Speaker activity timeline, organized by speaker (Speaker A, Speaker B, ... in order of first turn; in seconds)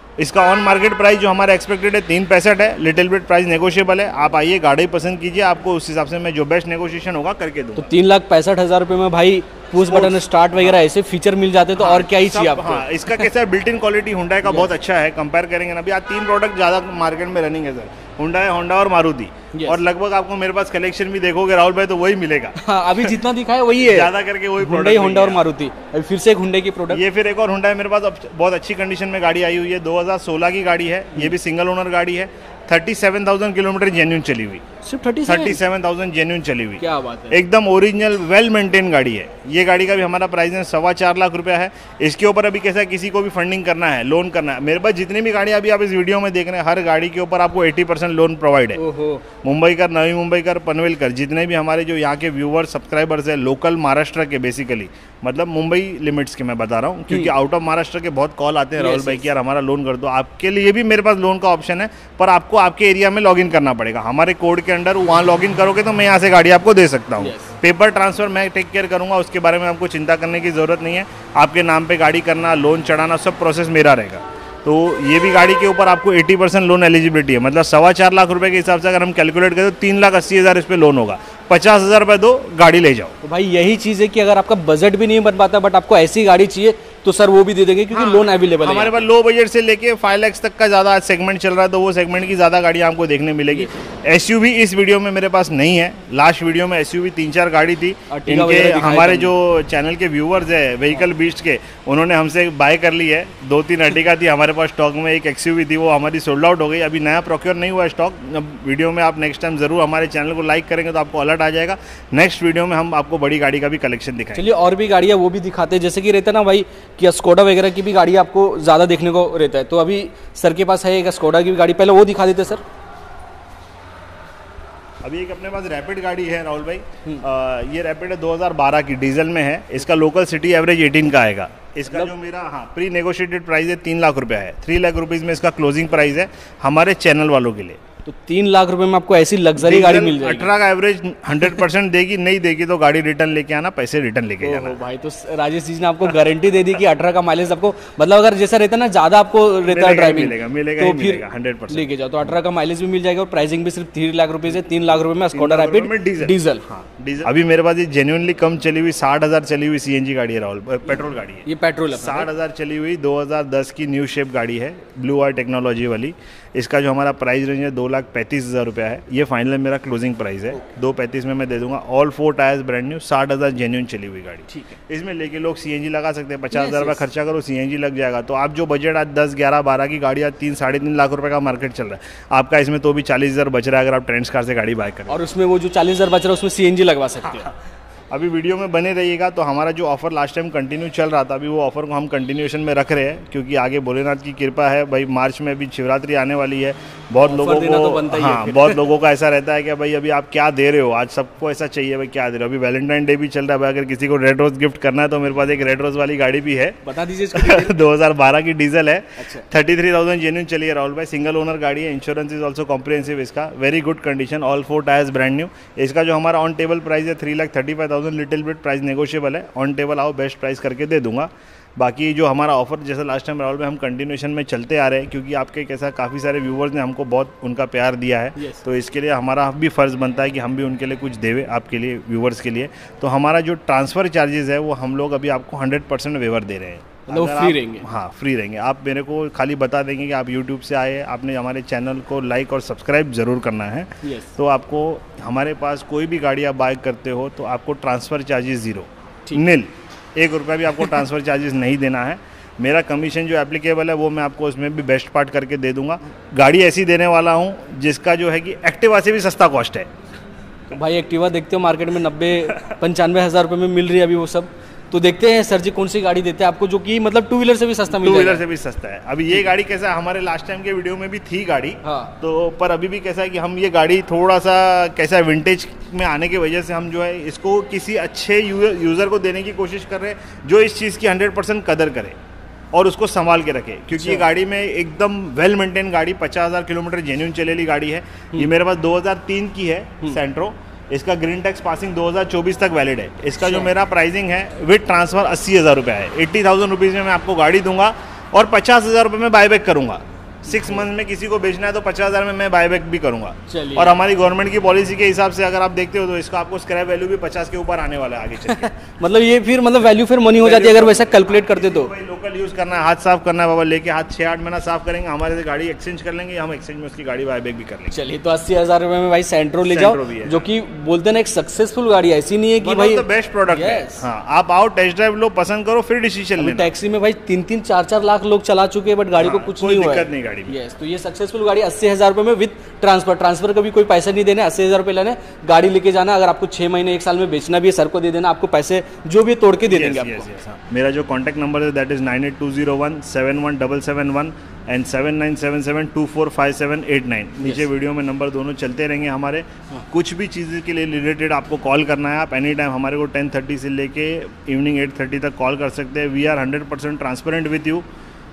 Speaker A: 0.2-7.9, 9.8-10.8, 11.8-23.2, 23.8-25.4, 26.9-34.6, 35.2-48.8, 49.4-83.2, 87.9-114.5, 125.0-137.8, 139.6-144.8, 149.7-151.9, 155.3-185.2, 188.1-259.9, 267.9-282.2, 282.7-308.7, 310.4-317.9, 319.6-320.5, 322.6-326.7, 329.2-330.6, 339.7-357.9
Speaker B: 7.8-13.2, 14.5-14.7, 19.5-19.8, 22.6-27.0, 34.8-35.6, 36.8-37.4, 48.8-49.2, 58.8-59.3, 67.2-67.5, 83.2-89.1, 98.1-99.3, 114.3-122.6, 138.1-140.5, 144.4-156.6, 161.4-162.3, 174.5-174.8, 176.5-177.0, 185.1-187.5, 197.2-198.9, 206.8-207.8, 209.2-209.5, 228.4-228.6, 237.1-237.9, 244.0-244.3, 260.7-268.4, 271.8-272.1, 284.0-284.2, 293.4-293.7, 300.6-300.8, 303.5-303.9, 308.5-311.9, 317.9-324.1, 326.4-340.3